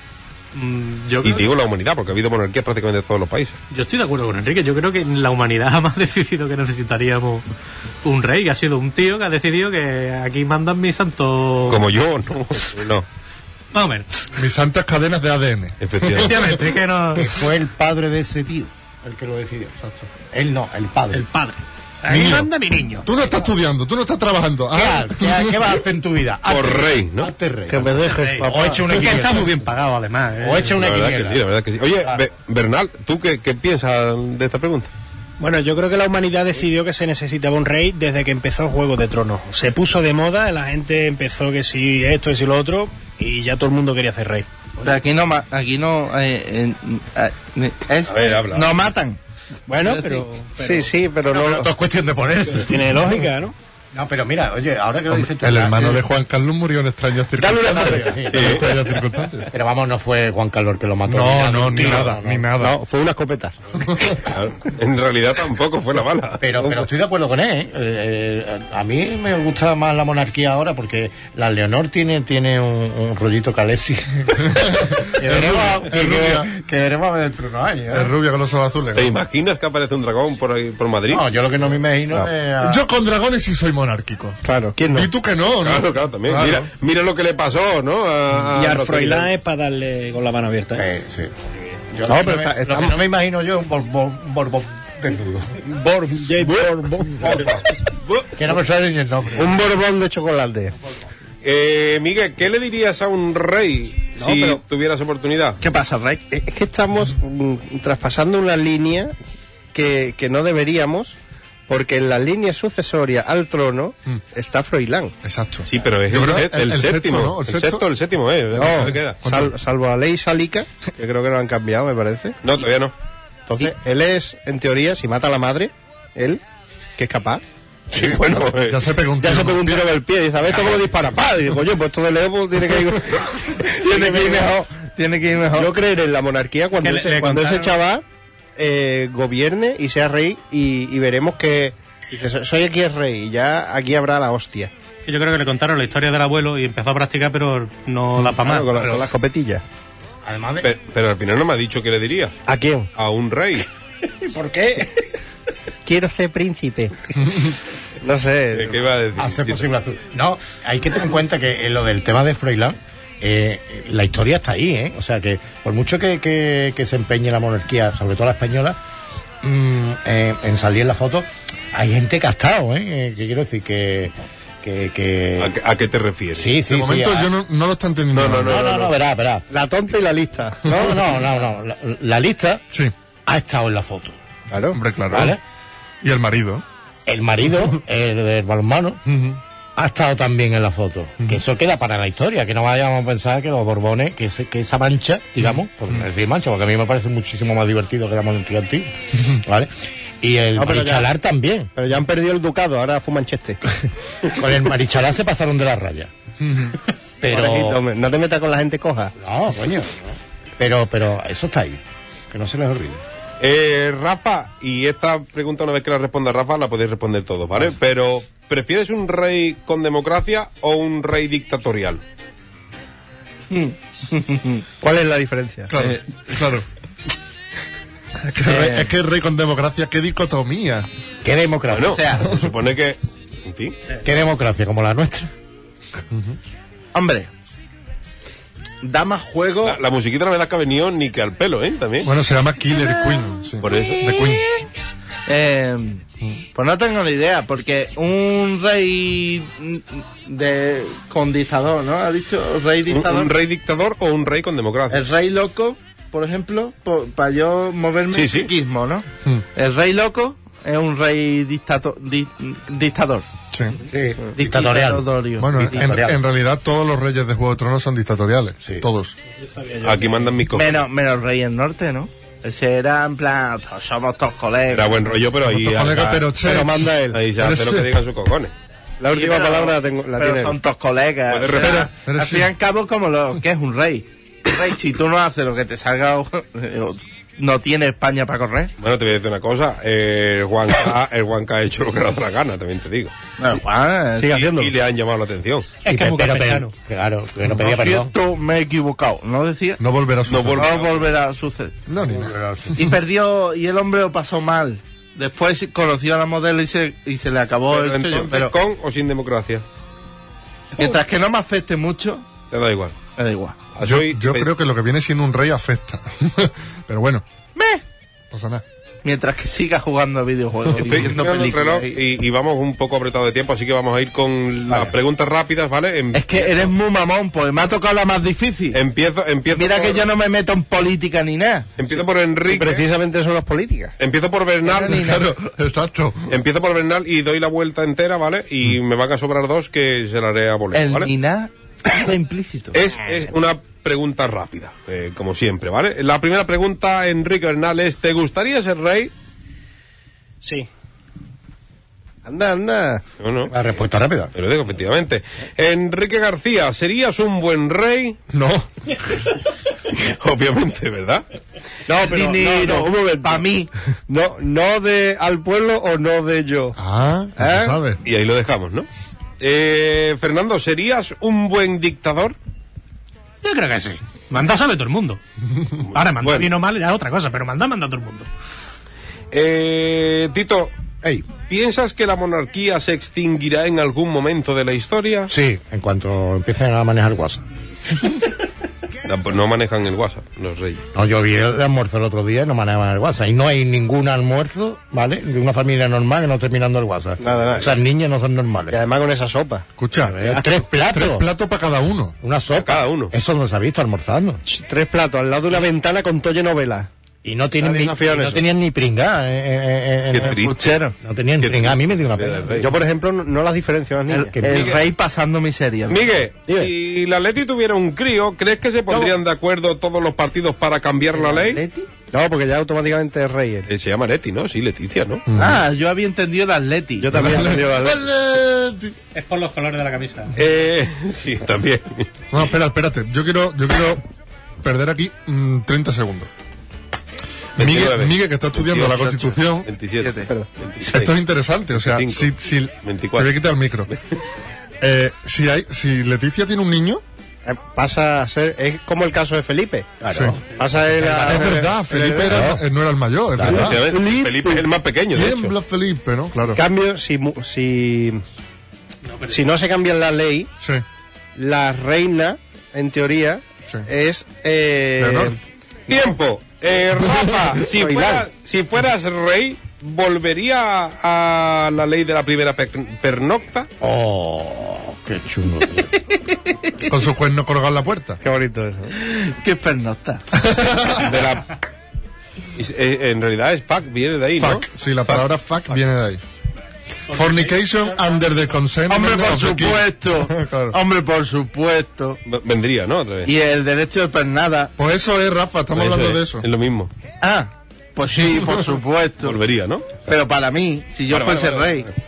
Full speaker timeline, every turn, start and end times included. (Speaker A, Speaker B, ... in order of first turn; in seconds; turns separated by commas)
Speaker A: 0.5-1.5, Speaker B: 1.2-3.6, Speaker A: 3.7-7.4, Speaker A: 8.0-11.8, Speaker B: 11.7-13.1, Speaker A: 13.7-14.1, Speaker C: 14.3-16.6, Speaker B: 15.8-16.6, Speaker A: 16.2-17.2, Speaker D: 17.1-19.8, Speaker C: 19.8-20.1, Speaker D: 20.3-21.3, Speaker A: 21.2-21.4, Speaker A: 22.0-23.1, Speaker C: 22.1-22.5, Speaker C: 23.0-25.8, Speaker D: 24.7-29.6, Speaker B: 26.5-27.3, Speaker E: 27.7-29.2, Speaker A: 28.1-30.8, Speaker D: 30.4-31.4, Speaker B: 30.8-34.9, Speaker F: 35.4-44.5, Speaker G: 44.8-49.2, Speaker B: 48.0-48.7, Speaker F: 49.7-50.9, Speaker G: 49.7-50.5, Speaker E: 50.6-51.7, Speaker D: 51.3-52.8, Speaker F: 52.5-53.5, Speaker D: 53.9-56.0, Speaker C: 55.1-59.5, Speaker D: 57.4-58.8, Speaker B: 58.3-58.7, Speaker D: 59.5-62.4, Speaker C: 61.1-62.7, Speaker E: 62.6-63.5, Speaker C: 63.8-64.2, Speaker B: 64.2-66.4, Speaker D: 66.4-78.1, Speaker C: 74.5-76.5, Speaker C: 77.9-79.2, Speaker B: 78.9-81.2, Speaker D: 81.1-82.8, Speaker C: 82.6-86.7, Speaker E: 84.4-85.1, Speaker B: 85.6-89.3, Speaker F: 88.5-90.8, Speaker D: 90.8-91.3, Speaker D: 91.9-95.6, Speaker E: 92.0-93.0, Speaker F: 95.8-97.4, Speaker D: 96.4-97.6, Speaker D: 98.3-99.5, Speaker E: 99.3-100.7, Speaker B: 101.4-105.6, Speaker G: 104.2-104.5, Speaker G: 105.6-106.2, Speaker E: 106.3-109.1, Speaker E: 109.7-111.2, Speaker E: 111.7-115.1, Speaker C: 115.2-117.8, Speaker B: 115.7-119.2, Speaker E: 118.5-122.4, Speaker C: 118.6-119.5, Speaker B: 122.4-122.9, Speaker E: 123.5-126.4, Speaker E: 127.0-127.4, Speaker B: 127.9-128.8, Speaker C: 128.0-129.9, Speaker E: 129.2-134.5, Speaker G: 133.8-135.7, Speaker E: 135.5-138.0, Speaker A: 136.8-137.8, Speaker E: 138.6-144.7, Speaker A: 145.1-148.9, Speaker E: 148.1-149.6, Speaker D: 150.2-150.7, Speaker B: 150.6-152.3, Speaker E: 152.5-152.9, Speaker B: 152.9-153.7, Speaker F: 154.3-154.9, Speaker E: 155.8-157.5, Speaker C: 157.2-157.5, Speaker E: 158.0-158.8, Speaker B: 158.5-159.6, Speaker D: 159.2-168.8, Speaker D: 169.4-175.5, Speaker B: 175.4-176.5, Speaker D: 176.3-177.3, Speaker C: 176.7-178.7, Speaker B: 178.1-178.9, Speaker D: 178.4-179.4, Speaker E: 179.5-181.0, Speaker D: 180.7-182.6, Speaker D: 183.3-184.2, Speaker E: 184.5-184.8, Speaker C: 184.7-185.3, Speaker D: 185.1-185.4, Speaker C: 186.0-186.6, Speaker D: 187.1-189.0, Speaker C: 189.1-189.4, Speaker D: 189.8-199.7, Speaker C: 195.4-196.0, Speaker D: 200.2-201.7, Speaker E: 200.6-201.1, Speaker E: 201.7-203.6, Speaker D: 204.3-206.1, Speaker C: 206.4-206.8, Speaker D: 207.2-207.8, Speaker E: 207.2-209.1, Speaker D: 209.2-213.0, Speaker B: 213.4-222.0, Speaker G: 223.5-224.6, Speaker E: 224.8-225.7, Speaker C: 225.7-226.6, Speaker C: 228.3-230.9, Speaker G: 228.4-228.9, Speaker D: 231.2-232.0, Speaker B: 231.7-233.8, Speaker G: 231.8-232.3, Speaker D: 234.0-235.3, Speaker C: 236.1-236.4, Speaker G: 236.9-237.3, Speaker G: 238.8-239.8, Speaker B: 239.6-242.1, Speaker C: 242.0-244.4, Speaker B: 243.6-244.2, Speaker G: 245.3-246.0, Speaker G: 246.5-253.3, Speaker B: 252.9-255.0, Speaker G: 254.9-263.2, Speaker B: 258.1-258.5, Speaker C: 263.5-263.8, Speaker D: 263.9-266.2, Speaker G: 264.3-265.9, Speaker C: 265.4-269.1, Speaker F: 269.4-270.1, Speaker B: 269.8-270.8, Speaker G: 270.5-275.1, Speaker B: 274.7-276.3, Speaker C: 275.4-277.9, Speaker E: 276.4-277.2, Speaker B: 277.1-278.5, Speaker E: 279.0-280.6, Speaker G: 279.1-288.7, Speaker B: 281.3-281.9, Speaker C: 281.5-282.5, Speaker B: 288.8-293.1, Speaker G: 293.4-294.4, Speaker E: 294.2-294.7, Speaker B: 294.3-295.7, Speaker A: 295.8-296.7, Speaker D: 295.9-298.1, Speaker G: 297.5-299.8, Speaker C: 299.8-300.7, Speaker B: 300.3-301.1, Speaker G: 300.5-301.7, Speaker C: 301.9-302.9, Speaker D: 302.0-302.7, Speaker G: 302.7-308.5, Speaker B: 307.7-309.6, Speaker G: 310.8-312.2, Speaker B: 312.5-312.9, Speaker G: 313.1-313.6, Speaker B: 313.7-314.5, Speaker C: 313.8-317.2, Speaker G: 317.5-317.8, Speaker C: 318.3-318.6, Speaker G: 319.0-322.0, Speaker B: 320.8-326.7, Speaker G: 326.1-328.8, Speaker B: 328.7-330.1, Speaker G: 329.5-331.6, Speaker B: 331.8-332.8, Speaker E: 332.4-333.9, Speaker B: 334.0-335.1, Speaker G: 334.6-335.2, Speaker C: 334.9-336.3, Speaker B: 336.3-341.1, Speaker G: 340.7-342.8, Speaker B: 342.7-349.1, Speaker F: 350.4-350.7, Speaker E: 352.2-353.0, Speaker B: 353.2-353.5, Speaker D: 353.5-354.3, Speaker B: 354.3-358.2, Speaker C: 358.3-358.7, Speaker B: 359.9-361.2, Speaker E: 361.9-363.5, Speaker G: 361.9-363.7, Speaker E: 364.1-366.8, Speaker C: 366.8-368.0, Speaker E: 367.4-367.8, Speaker B: 368.0-368.9, Speaker B: 369.4-372.4, Speaker A: 373.4-375.2, Speaker B: 375.8-376.5, Speaker A: 375.9-378.3, Speaker B: 379.3-380.7, Speaker B: 381.5-385.3, Speaker D: 385.3-387.4, Speaker B: 389.0-390.8, Speaker D: 390.9-398.8, Speaker E: 397.2-397.8, Speaker E: 398.7-399.7, Speaker C: 399.8-402.1, Speaker D: 400.0-401.3, Speaker D: 402.2-404.4, Speaker B: 402.5-403.1, Speaker E: 404.4-406.9, Speaker D: 407.2-410.4, Speaker E: 407.6-408.4, Speaker B: 410.1-410.8, Speaker G: 410.2-410.9, Speaker D: 411.0-412.6, Speaker B: 411.4-412.7, Speaker E: 412.6-414.3, Speaker D: 414.1-414.7, Speaker G: 414.2-416.1, Speaker B: 414.5-414.8, Speaker B: 415.9-421.6, Speaker G: 421.2-421.9, Speaker E: 422.1-423.7, Speaker B: 423.7-425.2, Speaker C: 425.3-425.6, Speaker G: 425.4-427.2, Speaker E: 427.0-428.1, Speaker C: 427.1-428.9, Speaker A: 429.1-430.3, Speaker B: 430.4-432.1, Speaker C: 432.3-434.0, Speaker C: 434.6-436.3, Speaker B: 437.6-441.1, Speaker C: 437.6-439.7, Speaker G: 440.0-440.3, Speaker C: 440.9-443.9, Speaker B: 441.8-442.3, Speaker B: 442.8-443.3, Speaker C: 444.8-447.0, Speaker E: 447.4-452.5, Speaker D: 450.0-450.3, Speaker C: 450.1-450.4, Speaker C: 451.2-453.8, Speaker D: 452.3-452.6, Speaker B: 453.4-455.5, Speaker E: 453.4-454.6, Speaker C: 455.1-456.6, Speaker E: 456.5-458.2, Speaker A: 459.0-459.4, Speaker E: 459.3-460.5, Speaker E: 461.4-465.4, Speaker C: 465.0-465.3, Speaker B: 465.9-473.7, Speaker C: 467.1-467.5, Speaker E: 467.7-468.2, Speaker D: 473.8-475.9, Speaker C: 476.9-478.2, Speaker E: 478.2-478.9, Speaker G: 479.0-480.2, Speaker C: 480.4-481.1, Speaker B: 480.9-481.6, Speaker B: 482.6-485.2, Speaker C: 484.4-486.2, Speaker A: 487.1-488.1, Speaker C: 487.1-490.8, Speaker G: 488.9-492.2, Speaker B: 492.2-493.3, Speaker G: 493.2-494.7, Speaker C: 494.8-496.4, Speaker B: 495.7-496.9, Speaker G: 497.2-499.4, Speaker C: 498.4-498.6, Speaker B: 499.2-500.0, Speaker G: 500.0-501.9, Speaker B: 501.1-501.9